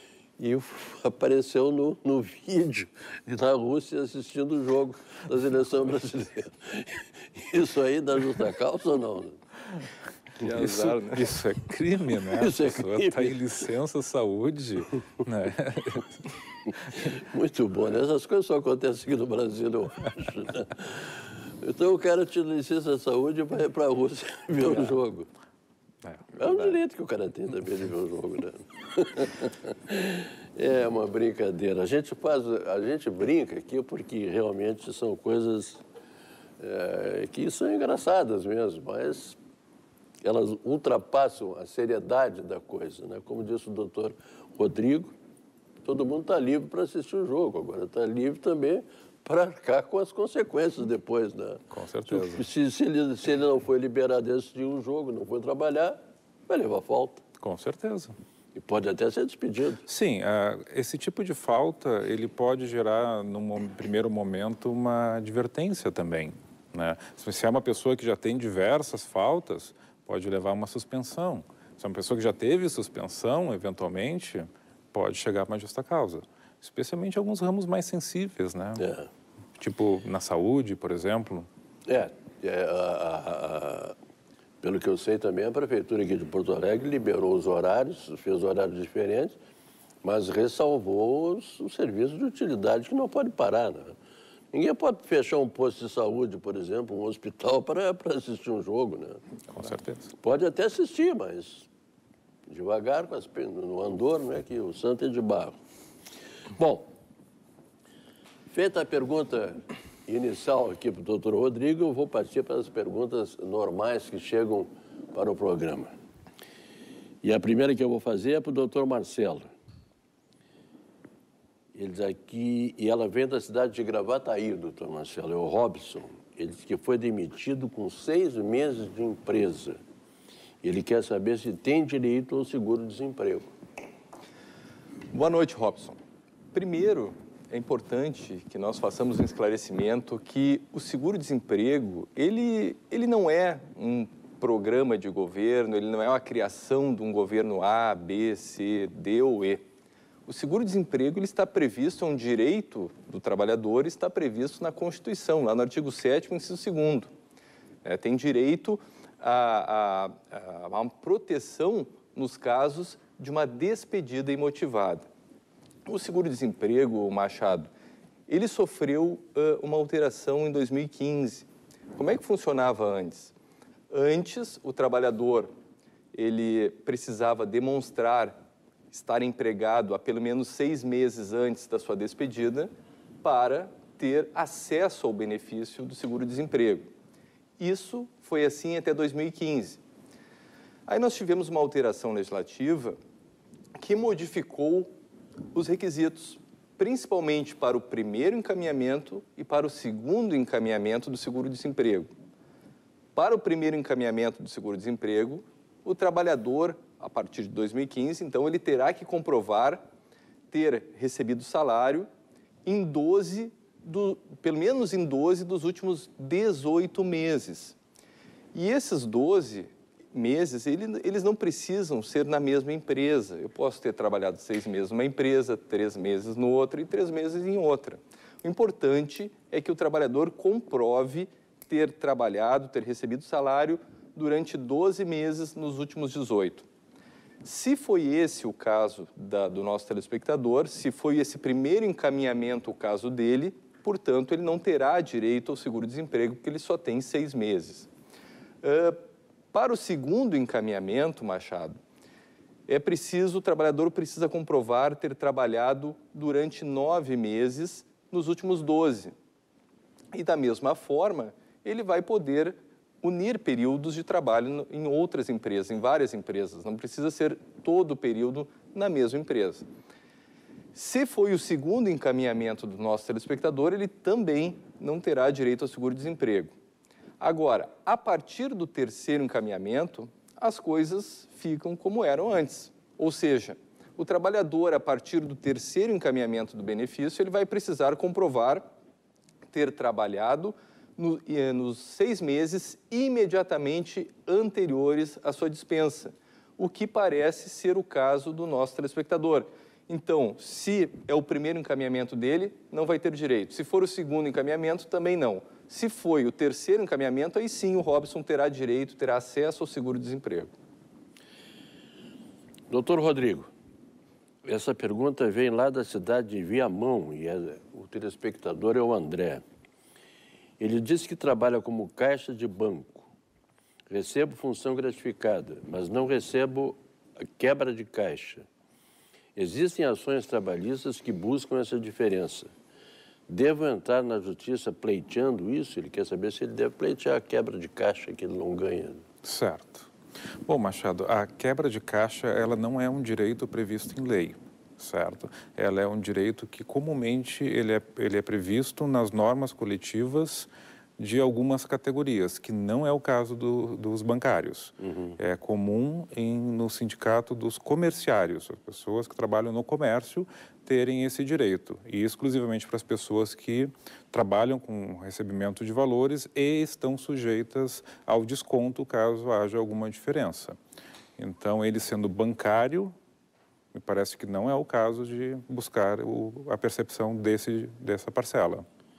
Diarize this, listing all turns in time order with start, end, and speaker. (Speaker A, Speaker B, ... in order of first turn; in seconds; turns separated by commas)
Speaker A: 0.4-9.4, Speaker B: 10.4-11.3, Speaker C: 10.6-16.2, Speaker A: 12.3-13.4, Speaker A: 16.9-25.3, Speaker C: 26.1-26.8, Speaker A: 26.3-35.8, Speaker A: 36.6-39.4, Speaker A: 40.2-45.1, Speaker A: 45.8-57.2, Speaker C: 51.7-52.4, Speaker C: 57.4-58.2, Speaker A: 58.5-59.9, Speaker C: 59.9-78.9, Speaker A: 78.8-79.1, Speaker C: 79.6-81.5, Speaker A: 81.9-84.0, Speaker A: 84.6-89.4, Speaker A: 90.0-93.9, Speaker A: 94.5-99.2, Speaker C: 99.5-100.1, Speaker A: 100.2-101.7, Speaker A: 102.5-105.6, Speaker A: 106.6-106.9, Speaker A: 108.5-115.9, Speaker A: 117.2-119.5, Speaker A: 121.7-129.8, Speaker A: 130.6-133.5, Speaker B: 135.1-136.0, Speaker B: 136.5-149.6, Speaker B: 150.3-157.1, Speaker B: 157.8-165.1, Speaker B: 165.9-167.7, Speaker B: 168.3-173.3, Speaker B: 173.9-175.5, Speaker B: 176.1-178.4, Speaker B: 178.9-182.7, Speaker B: 183.2-186.9, Speaker B: 187.6-189.8, Speaker B: 190.9-193.0, Speaker B: 193.8-194.9, Speaker B: 195.5-202.1, Speaker B: 203.2-209.8, Speaker B: 210.5-212.1, Speaker B: 212.7-217.8, Speaker B: 218.5-236.7, Speaker B: 237.4-247.9, Speaker B: 248.6-249.0, Speaker B: 249.5-251.8, Speaker B: 252.7-259.1, Speaker B: 260.1-269.7, Speaker B: 270.7-276.5, Speaker B: 277.2-288.7, Speaker B: 289.5-310.5, Speaker A: 312.7-313.5, Speaker A: 314.4-319.4, Speaker A: 320.6-323.1, Speaker A: 323.9-328.5, Speaker A: 329.4-332.5, Speaker A: 333.3-339.1, Speaker C: 339.2-339.9, Speaker C: 340.5-370.6, Speaker A: 354.8-355.2, Speaker C: 371.2-372.9, Speaker C: 373.7-378.6